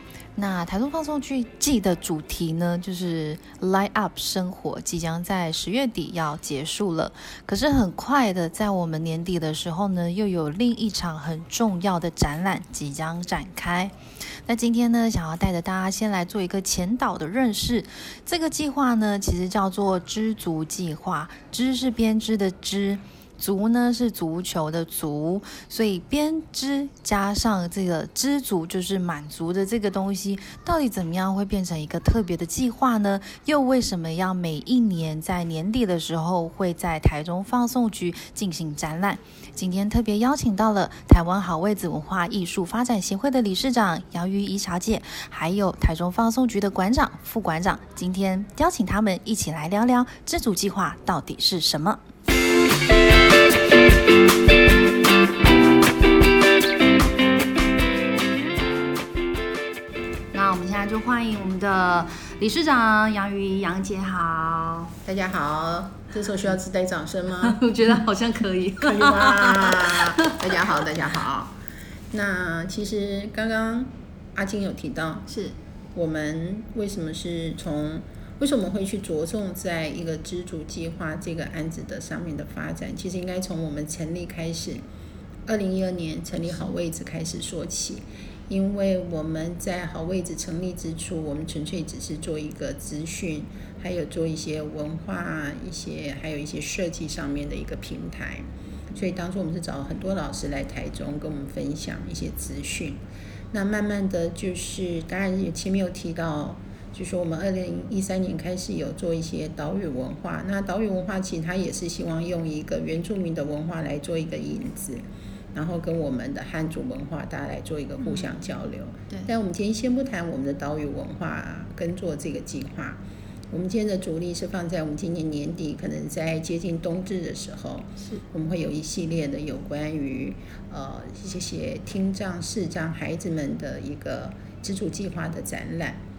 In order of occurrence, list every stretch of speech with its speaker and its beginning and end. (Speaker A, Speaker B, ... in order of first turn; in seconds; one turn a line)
Speaker A: 0.3-13.9
Speaker A: 14.5-52.0
Speaker A: 60.3-64.9
Speaker B: 65.0-67.6
Speaker A: 67.4-70.5
Speaker B: 68.8-71.6
Speaker B: 72.1-75.3
Speaker A: 75.3-75.5
Speaker B: 75.9-84.8
Speaker B: 85.5-103.0
Speaker B: 103.5-136.0
Speaker A: 118.0-118.3